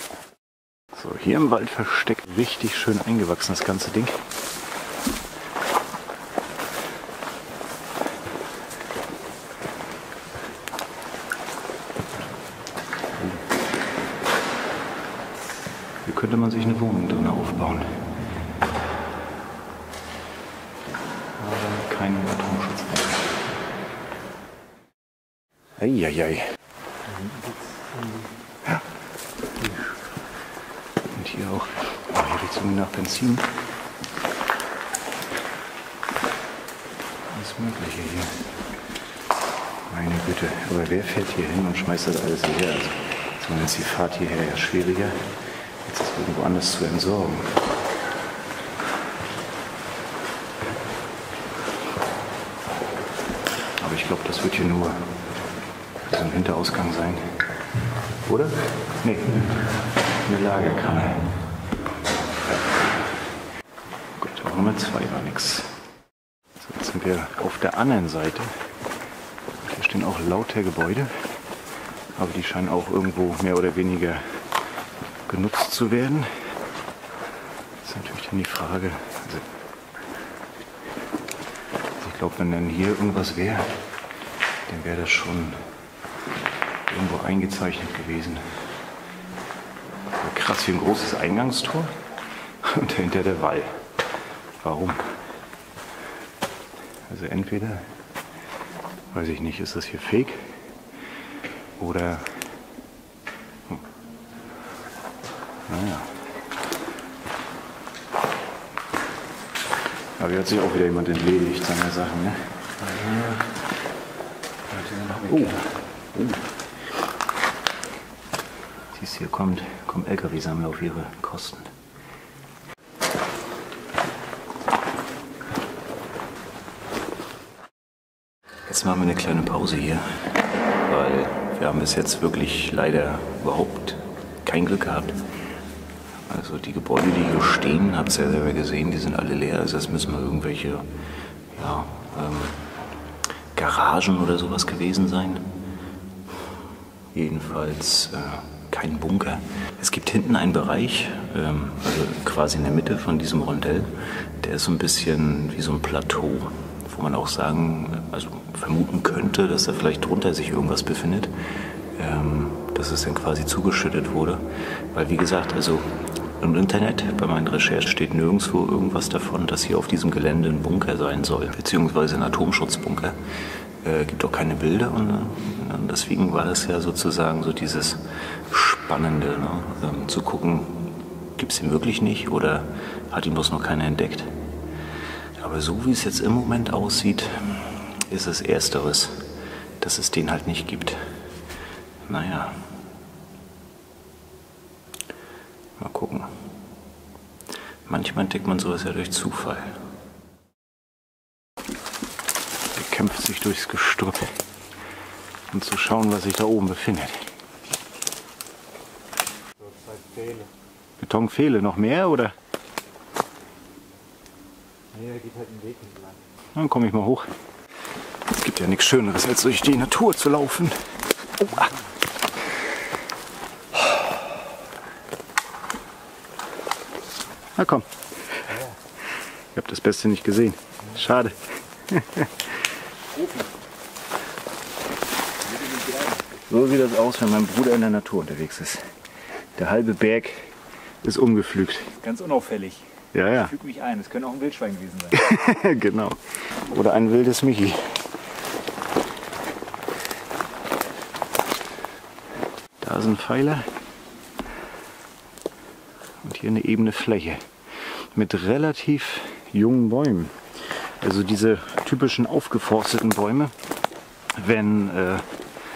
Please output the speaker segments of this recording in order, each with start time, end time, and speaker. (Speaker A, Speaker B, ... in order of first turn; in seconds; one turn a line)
Speaker A: 0.9-4.2
Speaker A: 16.0-17.9
Speaker A: 21.4-23.3
Speaker A: 25.8-26.4
Speaker B: 27.1-28.3
Speaker A: 31.1-33.5
Speaker A: 37.3-38.5
Speaker A: 39.9-47.5
Speaker A: 53.8-55.1
Speaker A: 56.0-57.4
Speaker A: 58.2-59.5
Speaker A: 60.2-61.4
Speaker A: 64.2-65.8
Speaker A: 66.6-68.5
Speaker A: 69.6-71.3
Speaker A: 72.2-74.4
Speaker A: 75.3-76.3
Speaker A: 77.8-79.5
Speaker A: 82.0-83.8
Speaker A: 84.7-85.6
Speaker A: 86.8-88.5
Speaker A: 90.2-91.9
Speaker A: 92.6-93.8
Speaker A: 94.6-95.1
Speaker A: 97.1-97.9
Speaker A: 99.1-100.5
Speaker A: 101.8-102.3
Speaker A: 105.7-106.2
Speaker A: 110.2-113.3
Speaker A: 114.9-116.3
Speaker A: 118.9-121.7
Speaker A: 128.7-130.2
Speaker A: 130.8-135.2
Speaker A: 136.3-140.9
Speaker A: 141.5-142.6
Speaker A: 143.5-145.5
Speaker A: 147.1-161.3
Speaker A: 161.9-173.2
Speaker A: 173.8-184.3
Speaker A: 185.4-189.3
Speaker A: 189.8-191.1
Speaker A: 192.1-192.6
Speaker A: 195.8-196.4
Speaker A: 197.8-199.8
Speaker A: 202.7-204.4
Speaker A: 205.5-207.3
Speaker B: 209.7-210.5
Speaker A: 211.0-212.3
Speaker B: 214.9-216.1
Speaker A: 216.5-217.3
Speaker A: 218.3-220.8
Speaker A: 221.4-221.7
Speaker A: 227.6-228.6
Speaker A: 229.5-232.5
Speaker B: 235.5-236.2
Speaker A: 236.3-238.8
Speaker A: 239.6-242.0
Speaker B: 242.0-243.0
Speaker A: 243.1-243.6
Speaker B: 243.6-245.2
Speaker A: 245.1-248.0
Speaker A: 252.8-253.7
Speaker A: 256.2-260.4
Speaker A: 261.0-263.5
Speaker A: 264.4-265.2